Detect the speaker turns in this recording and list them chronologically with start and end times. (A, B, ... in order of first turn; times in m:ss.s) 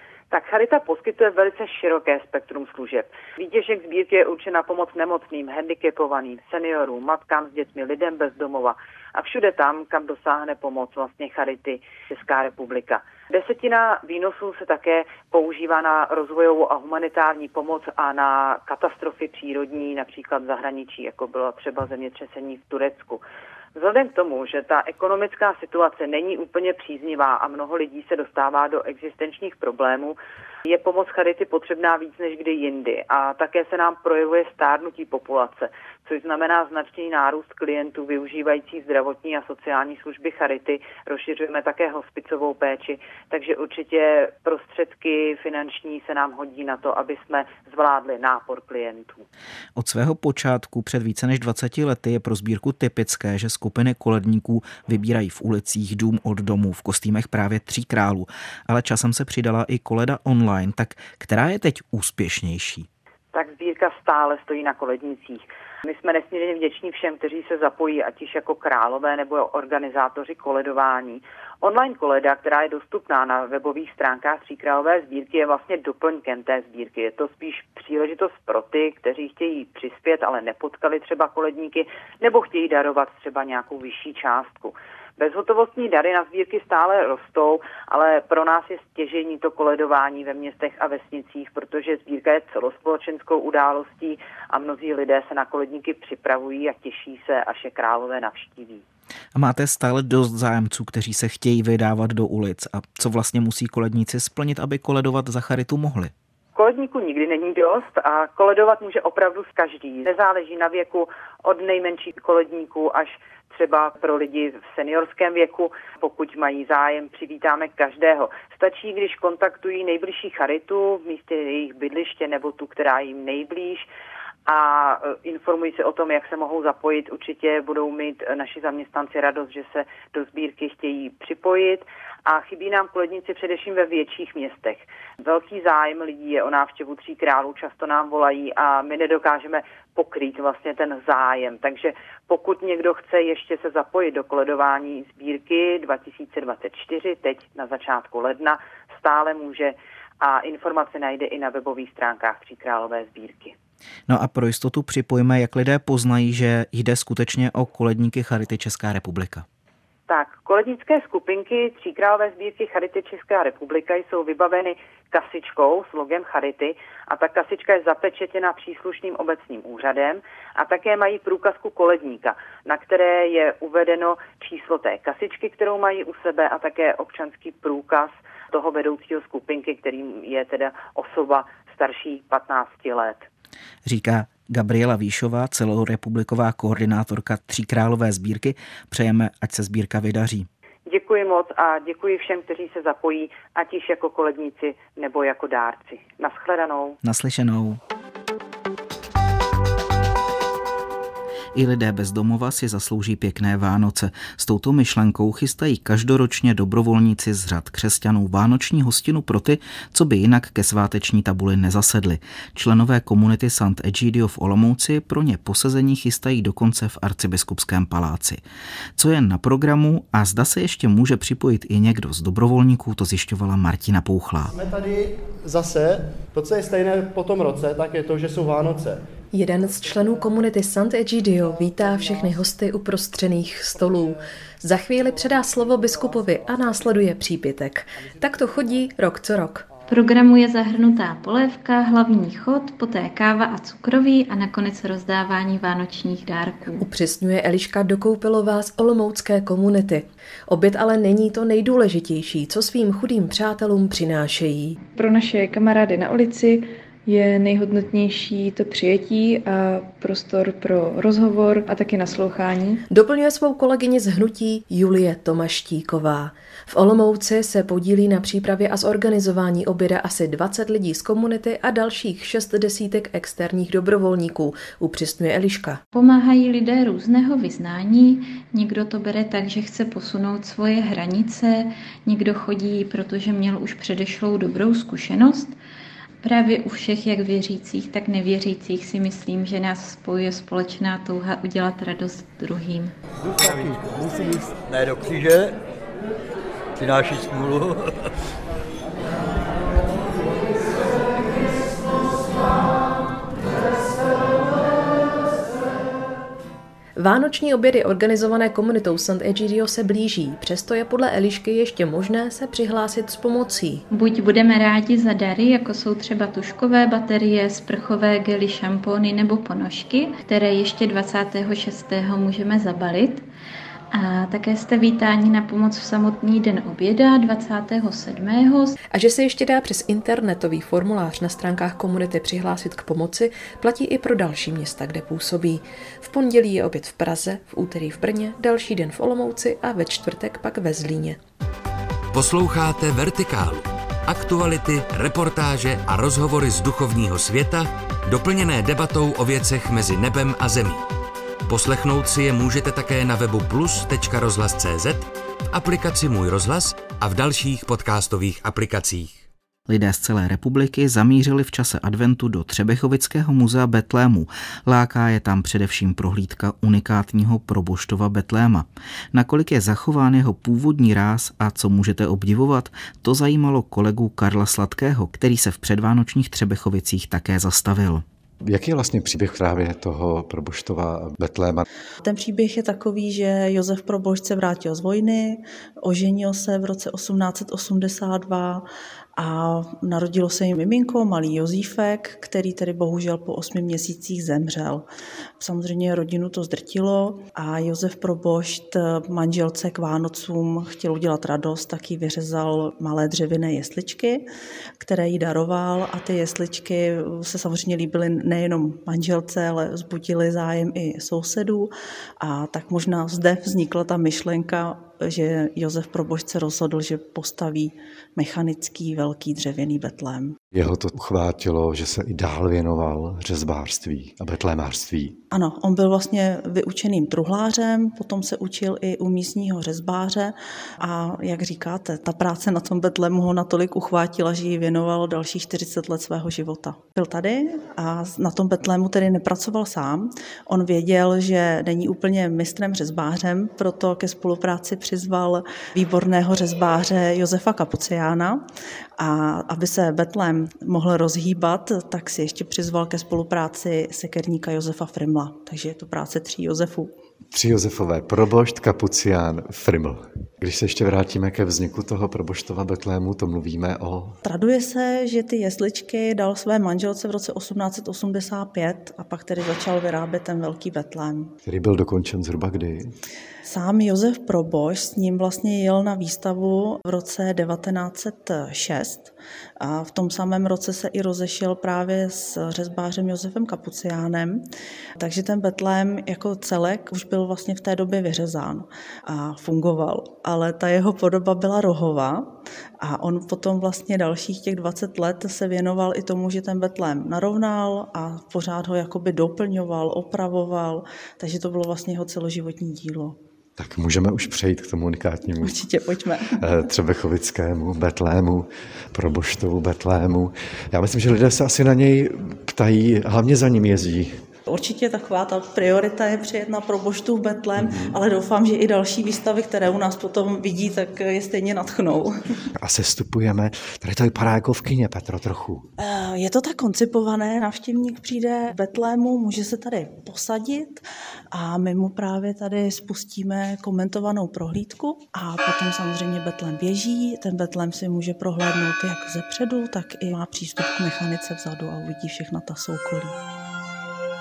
0:00.3-0:23.2 A
0:23.8-0:49.2 A
0:49.8-1:02.9 B
1:03.3-1:38.8 A
1:39.4-1:46.1 B
1:46.6-2:03.9 A
2:04.5-2:33.5 A
2:34.1-2:39.5 B
2:40.1-3:03.3 A
3:03.8-3:10.5 B
3:10.9-3:17.0 A
3:17.0-3:17.8 B
3:21.6-3:38.4 B
3:39.0-3:44.5 B
3:44.5-3:50.7 C
3:49.3-3:59.7 D
3:51.2-3:52.7 C
3:53.7-3:54.3 C
3:54.8-3:57.3 C
3:58.0-3:59.0 C
3:59.7-4:00.1 C
3:59.9-4:06.8 E
4:06.8-4:14.8 D
4:14.9-4:22.8 F
4:22.9-4:35.8 D
4:35.9-4:45.5 E
4:46.2-4:52.9 E
4:53.2-4:54.6 C
4:54.7-4:55.6 G
4:56.8-4:57.9 G
5:07.0-5:13.8 D
5:13.9-5:23.3 E
5:23.9-5:28.8 E
5:28.9-5:41.2 D
5:42.1-5:50.9 H
5:51.5-5:59.2 H
5:59.7-6:18.0 B
6:18.4-6:21.6 I
6:22.0-6:28.6 J
6:29.2-6:34.9 J
6:35.4-6:44.2 J
6:44.8-7:00.4 J
7:00.5-7:05.2 I
7:05.3-7:28.4 J
7:29.0-7:36.9 J
7:37.3-7:44.2 I
7:44.2-7:51.3 J
7:51.4-7:52.9 I
7:53.5-8:04.4 J
8:05.0-8:23.2 J
8:23.6-8:25.6 I
8:25.4-8:26.4 J
8:26.4-8:34.2 I
8:34.5-8:42.2 J
8:37.6-8:38.0 I
8:42.6-8:45.7 I
8:45.8-9:03.2 J